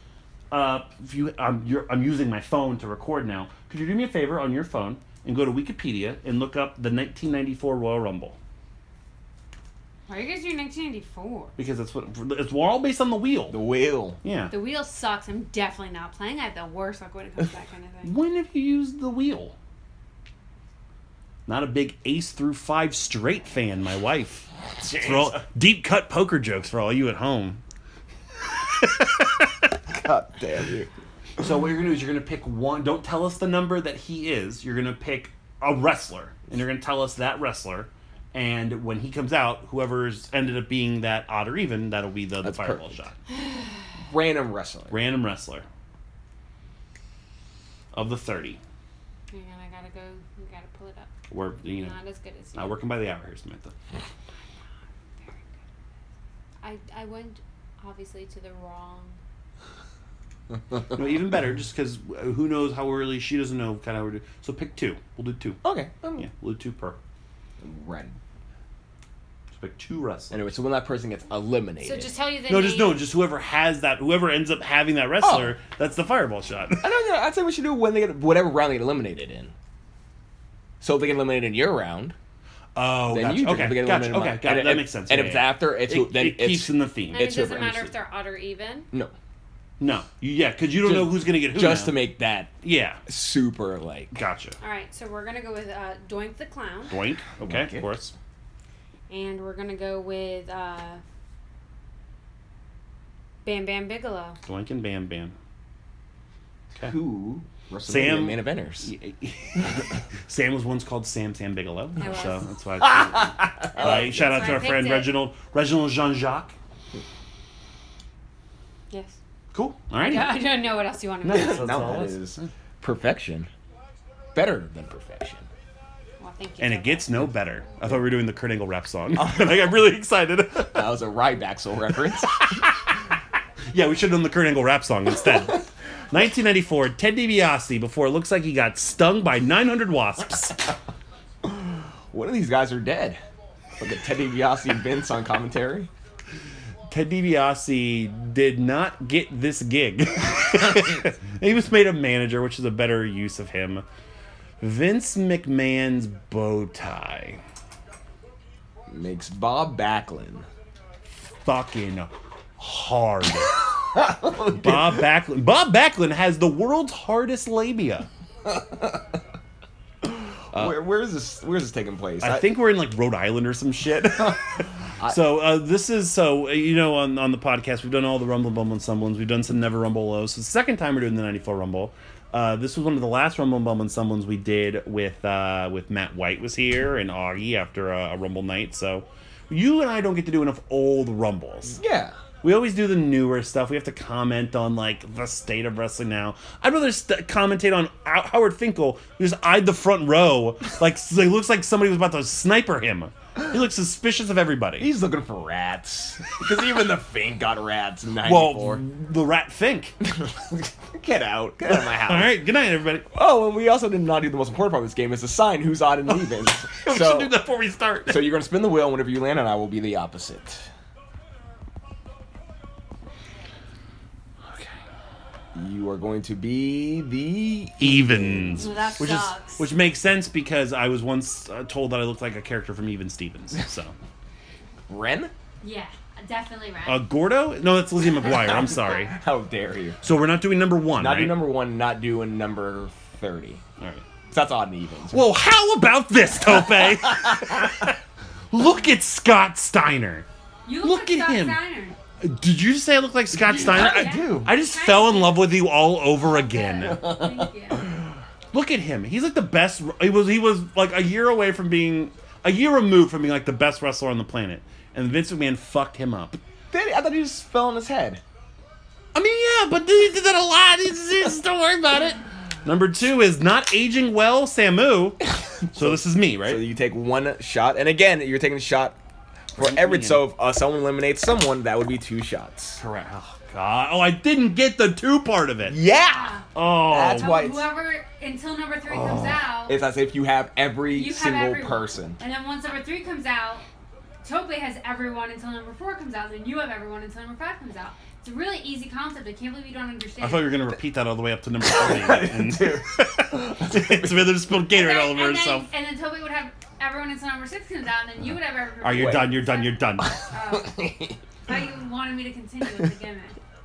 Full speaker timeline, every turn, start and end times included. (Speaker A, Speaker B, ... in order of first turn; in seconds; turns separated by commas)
Speaker A: 0.5-8.4, Speaker B: 10.1-11.5, Speaker A: 11.6-13.6, Speaker C: 13.5-14.2, Speaker A: 14.2-14.5, Speaker B: 14.5-18.1, Speaker A: 18.0-19.5, Speaker A: 21.5-24.5, Speaker C: 24.8-25.4, Speaker A: 25.0-27.6, Speaker A: 28.4-29.7, Speaker C: 29.9-30.9, Speaker A: 31.4-43.1, Speaker C: 42.4-43.0, Speaker C: 44.0-45.0, Speaker A: 44.9-45.6, Speaker A: 47.9-48.6, Speaker B: 49.3-51.1, Speaker A: 51.3-51.9, Speaker B: 51.6-52.7, Speaker A: 52.5-53.7, Speaker B: 56.6-59.2, Speaker A: 60.9-65.6, Speaker C: 65.6-66.3, Speaker A: 66.2-67.0, Speaker C: 67.6-68.2, Speaker A: 69.5-70.3, Speaker C: 70.3-72.1, Speaker B: 71.8-73.0, Speaker A: 72.5-76.8, Speaker C: 75.2-75.6, Speaker C: 76.8-79.5, Speaker C: 80.8-82.1, Speaker A: 82.8-87.8, Speaker C: 83.1-87.8, Speaker B: 87.1-88.9, Speaker A: 89.8-92.0, Speaker C: 90.8-92.5, Speaker A: 92.6-93.0, Speaker C: 93.1-94.1, Speaker A: 94.1-94.5, Speaker B: 94.6-96.9, Speaker A: 96.9-98.1, Speaker C: 97.4-97.9, Speaker B: 99.1-101.0, Speaker B: 103.4-104.4, Speaker A: 104.5-105.3, Speaker C: 106.8-108.9, Speaker A: 107.9-116.5, Speaker B: 112.0-112.4, Speaker C: 112.8-114.3, Speaker B: 113.7-115.1, Speaker B: 118.9-119.1, Speaker A: 119.5-120.4, Speaker B: 120.0-122.0, Speaker A: 121.2-122.5, Speaker C: 121.3-123.5, Speaker C: 124.3-125.5, Speaker B: 126.2-127.1, Speaker A: 126.6-130.9, Speaker C: 129.2-129.6, Speaker C: 130.7-132.7, Speaker A: 132.5-132.9, Speaker A: 133.7-140.6, Speaker C: 141.4-143.2, Speaker C: 143.8-145.9, Speaker A: 146.9-153.8, Speaker A: 154.6-157.4, Speaker C: 158.9-160.5, Speaker A: 161.2-163.5, Speaker C: 163.9-165.0, Speaker A: 164.5-168.1, Speaker C: 168.4-169.2, Speaker C: 170.0-172.4, Speaker A: 172.2-191.8, Speaker C: 174.2-175.2, Speaker C: 191.7-192.2, Speaker A: 192.4-204.9, Speaker C: 204.8-208.8, Speaker A: 208.2-209.9, Speaker C: 210.0-212.3, Speaker A: 211.7-213.0, Speaker C: 213.1-217.3, Speaker A: 216.7-218.3, Speaker C: 218.1-220.7, Speaker A: 224.4-224.8, Speaker C: 225.5-228.7, Speaker A: 227.8-233.9, Speaker B: 228.6-229.7, Speaker C: 234.9-235.3, Speaker B: 235.6-237.0, Speaker A: 236.8-239.1, Speaker C: 238.2-240.0, Speaker A: 240.0-241.4, Speaker C: 240.9-243.6, Speaker A: 243.8-244.1, Speaker C: 244.3-245.3, Speaker A: 245.1-248.0, Speaker C: 246.5-247.9, Speaker A: 248.5-250.2, Speaker B: 250.7-252.0, Speaker A: 250.8-251.6, Speaker A: 252.2-257.0, Speaker C: 253.3-254.5, Speaker B: 253.6-255.5, Speaker B: 256.2-257.9, Speaker C: 256.9-257.9, Speaker A: 258.5-266.4, Speaker C: 266.7-268.2, Speaker A: 269.1-275.2, Speaker C: 275.6-279.0, Speaker A: 275.7-276.6, Speaker A: 279.5-280.2, Speaker C: 279.6-282.8, Speaker A: 282.8-285.8, Speaker C: 285.6-286.4, Speaker B: 286.0-286.5, Speaker A: 286.5-287.3, Speaker C: 286.9-287.7, Speaker B: 287.1-289.8, Speaker C: 289.0-292.2, Speaker B: 290.9-293.6, Speaker B: 294.2-300.5, Speaker A: 300.2-305.7, Speaker C: 301.6-304.3, Speaker B: 304.7-310.8, Speaker A: 308.8-310.1, Speaker C: 308.9-309.2, Speaker C: 310.1-311.2, Speaker B: 311.4-313.4